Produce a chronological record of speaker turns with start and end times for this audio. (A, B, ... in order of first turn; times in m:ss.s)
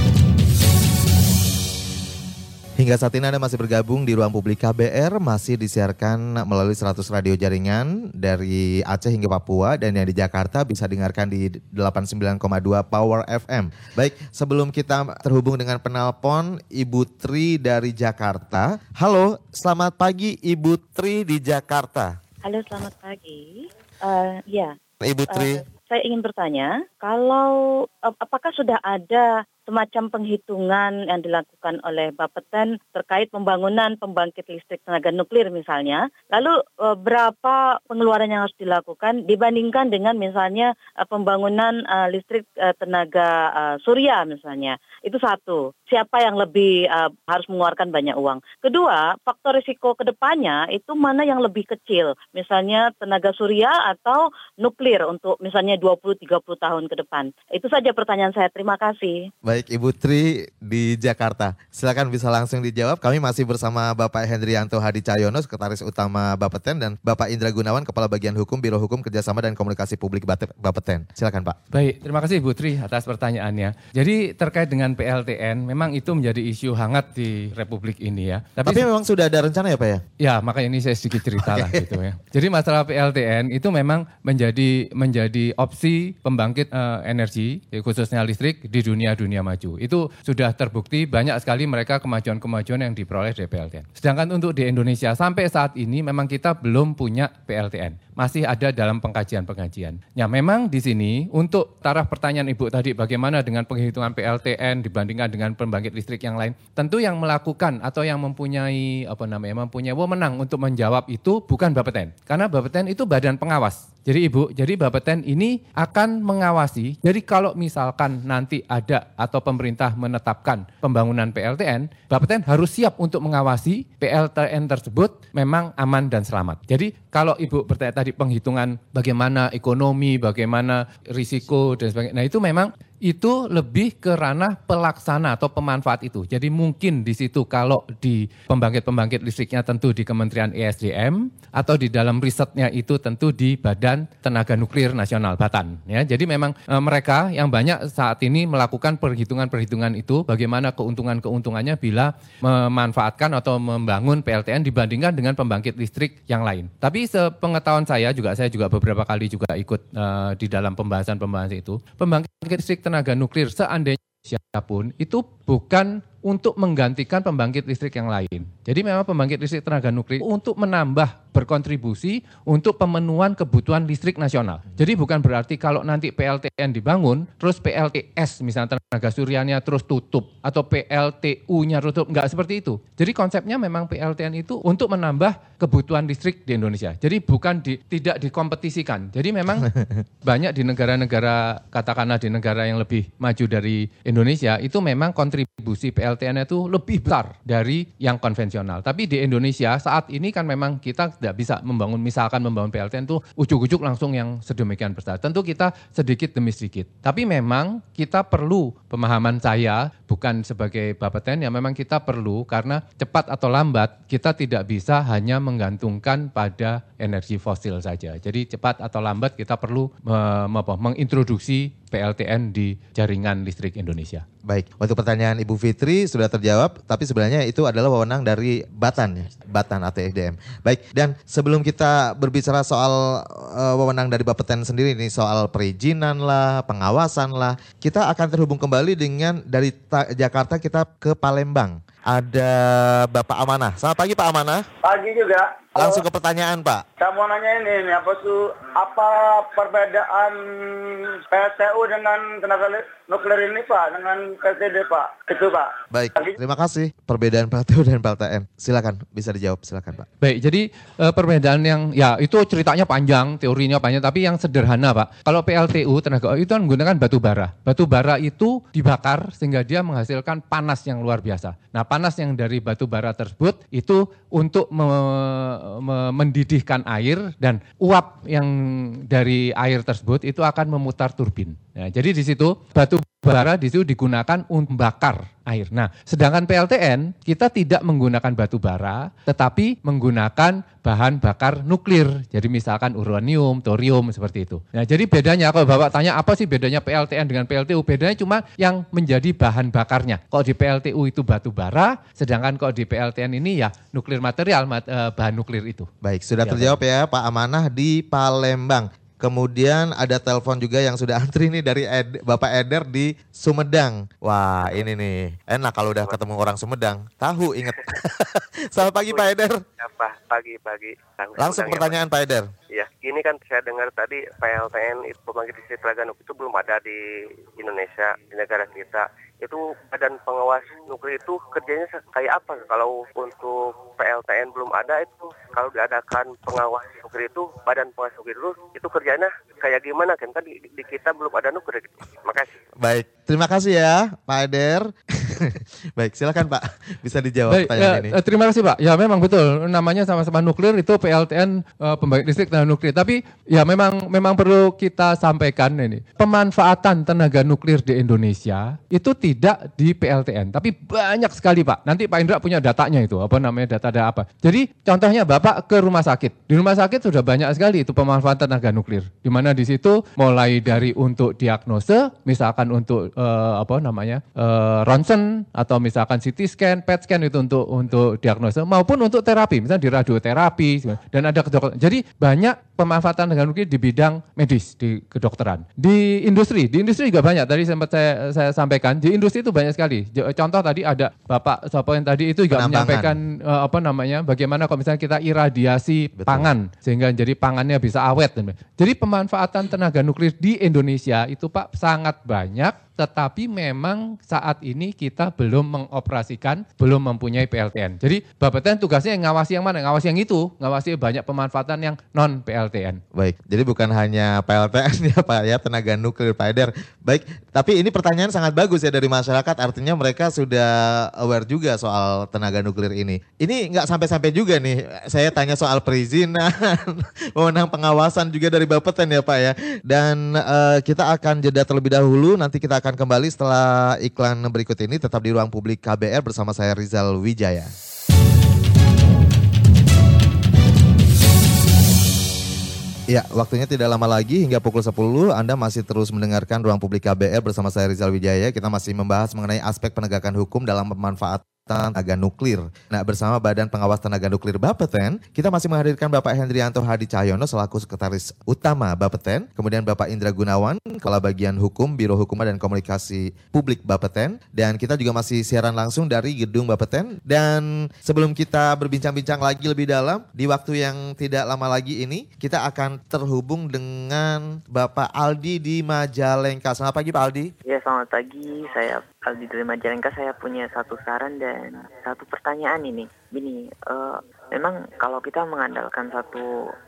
0:02.8-0:22.1 A
0:22.4-0:24.8 B
0:25.0-0:25.6 A
0:25.3-0:59.3 B
0:59.4-1:11.6 A
1:11.7-1:18.9 C
1:18.6-1:20.0 A
1:20.2-3:09.7 C
1:21.4-1:21.8 A
3:10.2-3:44.2 C
3:44.5-4:04.7 A
4:04.8-4:06.0 D
4:05.8-4:06.8 A
4:07.0-4:16.3 D
4:15.9-4:20.1 A
4:20.2-5:05.9 C
5:06.0-5:19.6 A
5:06.4-5:06.8 C
5:18.9-5:22.0 E
5:21.4-5:22.5 A
5:22.7-5:27.0 E
5:27.6-5:42.6 E
5:42.8-5:48.2 A
5:47.5-6:53.0 C
6:32.5-6:33.2 A
6:36.2-6:36.5 A
6:53.1-7:17.7 A
7:23.1-7:57.5 A
7:57.7-8:06.5 F